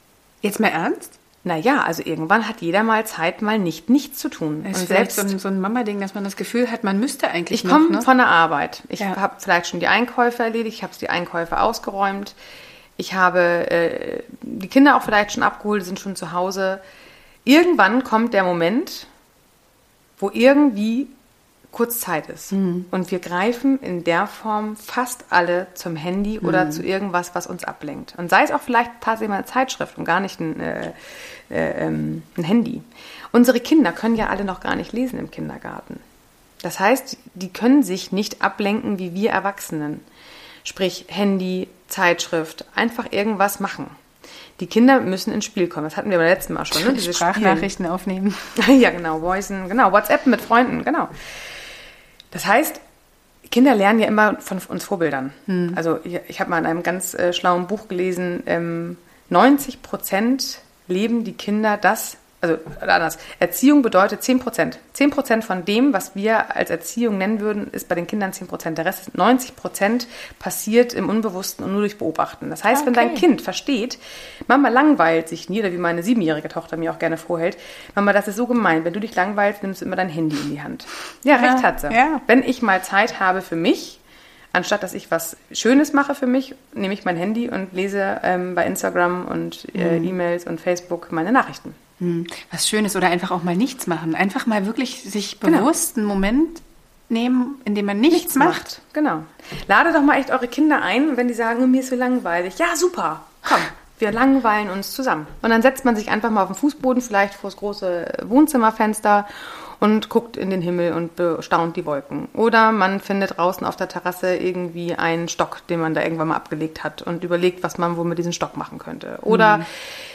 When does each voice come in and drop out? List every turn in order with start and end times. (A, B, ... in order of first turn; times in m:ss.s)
0:00.4-0:01.1 A
0:01.4-0:05.3 B
0:04.6-0:08.1 A
0:07.5-0:12.4 B
0:13.0-0:16.8 B
0:17.4-0:19.1 B
0:20.2-0:21.1 B
0:21.7-0:36.0 B
0:22.5-0:22.9 A
0:26.4-0:26.8 A
0:36.6-0:40.0 B
0:40.6-0:43.9 B
0:44.6-0:47.7 B
0:46.7-0:48.6 A
0:48.6-0:51.1 B
0:52.3-0:52.8 B
0:53.5-1:24.0 B
0:55.5-0:55.8 A
1:12.7-1:13.2 A
1:21.3-1:22.2 A
1:24.5-1:31.8 B
1:29.8-1:30.1 A
1:32.0-1:38.6 A
1:35.4-1:35.7 B
1:38.1-1:59.8 B
1:59.3-1:59.6 A